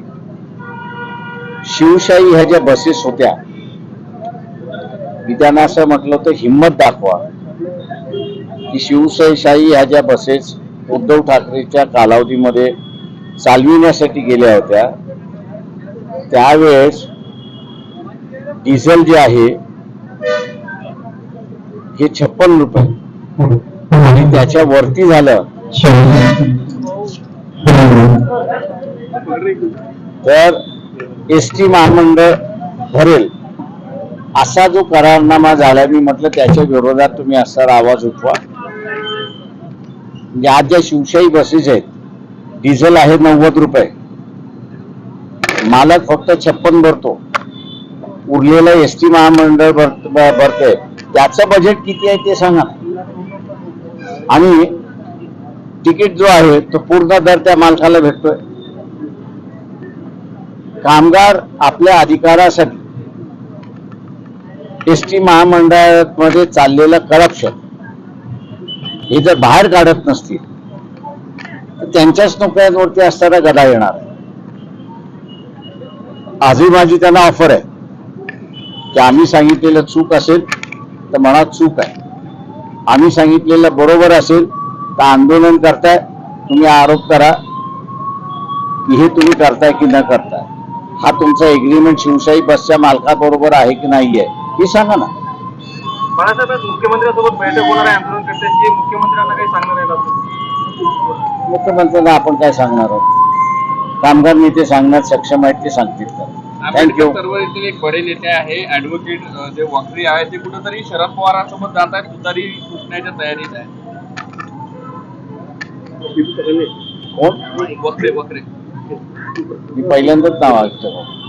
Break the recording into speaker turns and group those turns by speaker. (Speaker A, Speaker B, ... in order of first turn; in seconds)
Speaker A: 1.6-3.4, 5.2-7.2, 8.7-12.8, 13.4-14.9, 16.3-17.1, 18.6-19.6, 22.0-23.0, 23.9-26.1, 30.2-30.6, 31.3-33.3, 34.4-38.4, 40.3-41.9, 42.6-43.9, 45.6-47.2, 48.3-52.8, 54.3-54.8, 55.8-58.4, 60.8-62.8, 64.9-67.5, 69.1-70.4, 71.8-74.1, 76.4-77.6, 78.9-80.5, 81.1-81.9, 82.9-87.4, 88.8-90.5, 91.0-95.1, 101.5-103.1, 104.0-107.2, 117.1-117.5, 119.7-121.1
Speaker B: 29.2-29.8, 96.2-100.2, 116.2-116.7
Speaker C: 106.7-113.7, 117.6-118.5